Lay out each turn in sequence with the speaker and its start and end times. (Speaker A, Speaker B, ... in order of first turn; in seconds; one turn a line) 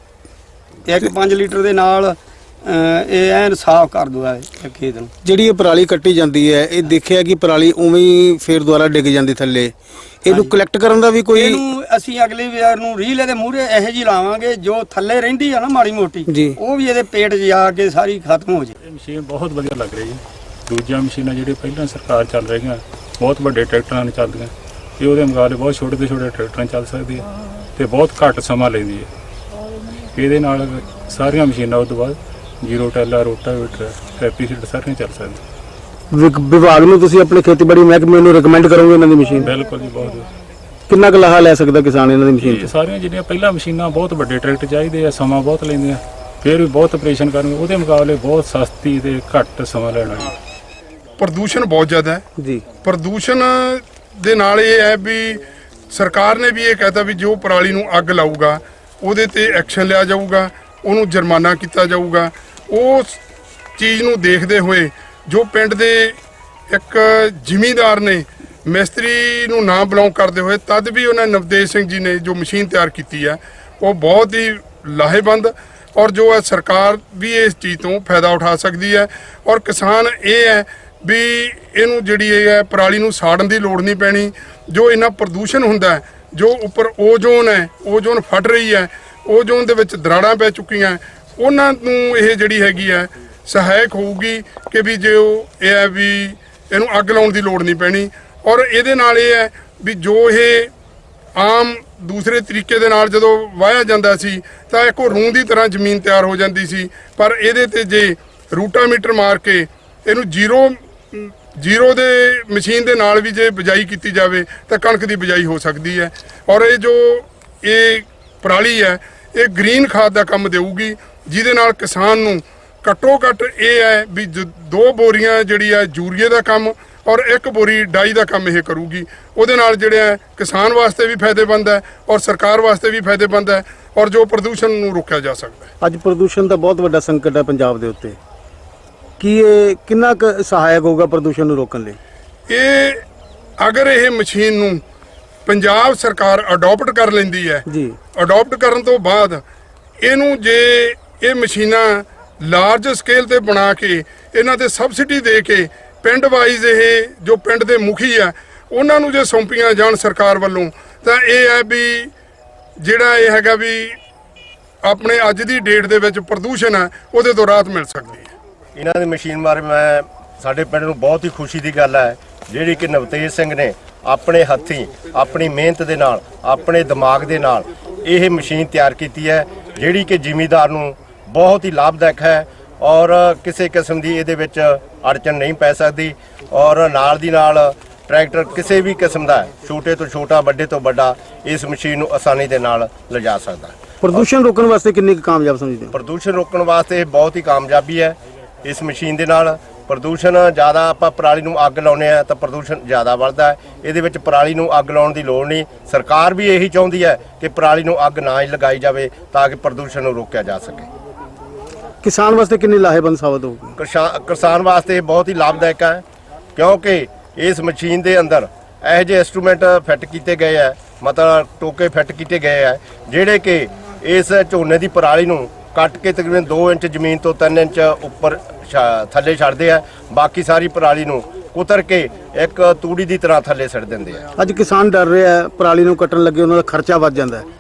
Speaker A: 0.8-5.1
Speaker B: 5.2-11.6
Speaker A: 10.3-10.5
Speaker A: 11.3-18.8
Speaker B: 16.3-16.6
Speaker C: 18.8-29.1
Speaker C: 30.1-35.4
Speaker B: 36.1-39.5
Speaker C: 39.4-40.3
Speaker B: 40.9-42.7
Speaker C: 42.4-50.3
Speaker D: 51.2-52.2
Speaker B: 52.4-52.6
Speaker D: 52.8-63.2
Speaker D: 63.8-66.2
Speaker D: 66.7-100.7
Speaker D: 101.4-135.7
Speaker B: 135.8-138.2
Speaker B: 139.2-142.0
Speaker D: 142.5-143.0
Speaker D: 143.6-144.8
Speaker D: 145.5-147.6
Speaker B: 147.7-148.0
Speaker D: 148.2-149.4
Speaker D: 150.0-162.1
Speaker D: 162.8-164.0
Speaker D: 164.9-168.3
Speaker E: 168.8-194.3
Speaker B: 194.0-196.0
Speaker E: 195.9-210.9
Speaker B: 212.0-213.8
Speaker E: 213.8-216.0
Speaker E: 216.6-234.3
Speaker B: 234.4-237.5